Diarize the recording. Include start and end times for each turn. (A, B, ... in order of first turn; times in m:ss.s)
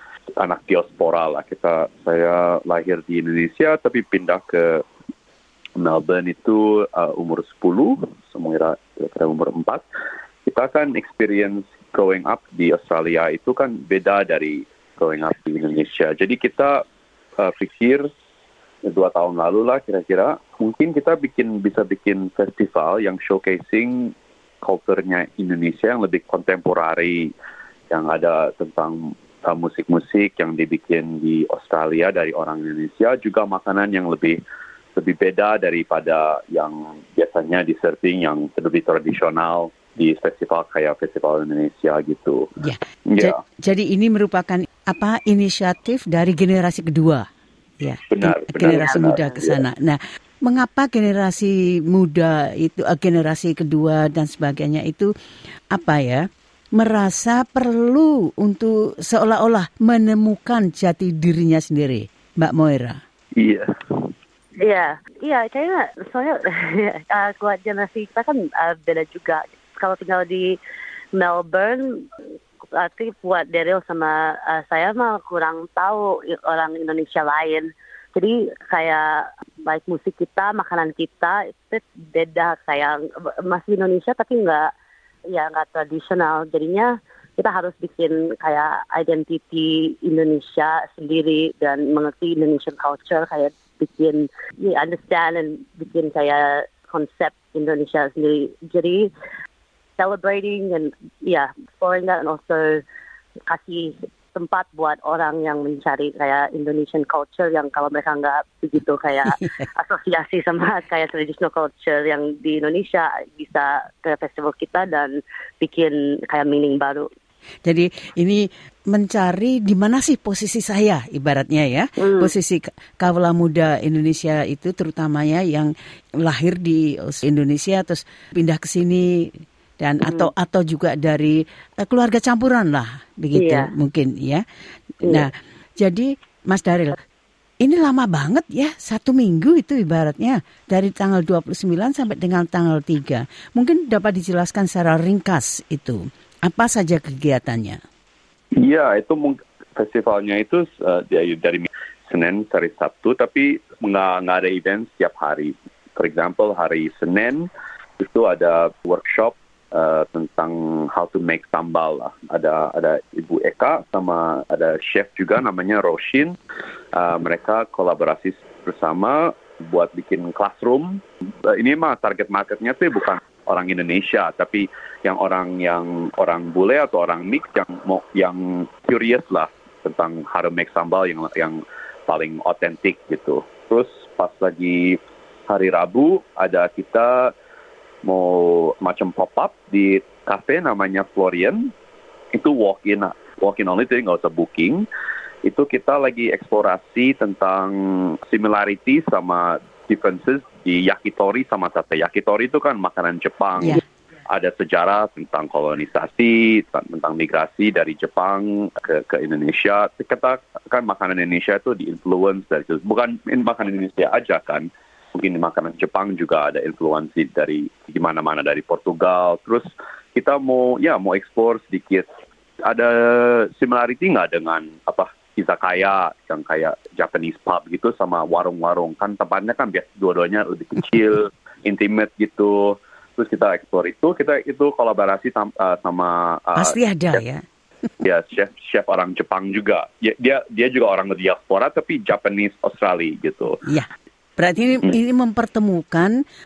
0:00.4-0:04.8 A
0:05.8-0:09.8 A
0:10.5-0:16.8 A
0:17.4-0:18.1 A
0:18.8-0:27.3 A
0:27.9-0:34.4 A
0:35.0-0:42.5 A
0:42.6-0:47.2 B
0:43.1-0:43.4 A
0:47.8-0:55.1 B
0:48.1-0:49.6 A
0:48.6-0:49.3 C
0:55.7-0:56.2 B
0:56.8-1:03.0 B
1:03.4-1:03.7 A
1:04.6-1:10.6 C
1:11.2-1:12.0 C
1:12.7-1:24.7 C
1:25.3-1:39.1 C
1:40.0-1:42.8 C
1:43.5-1:57.1 C
1:49.2-1:49.6 B
1:57.6-2:05.7 B
2:02.0-2:02.3 C
2:06.2-2:09.3 B
2:09.8-2:14.4 B
2:10.0-2:10.3 C
2:13.3-2:13.7 C
2:15.0-2:17.0 B
2:17.6-2:27.8 B
2:28.6-2:46.4 A
2:46.9-3:07.3 A
3:08.0-3:11.7 A
3:12.4-3:14.9 A
3:15.4-3:42.1 A
3:42.6-3:56.8 A
3:56.6-3:57.4 B
3:58.0-4:03.6 A
4:03.6-4:06.2 B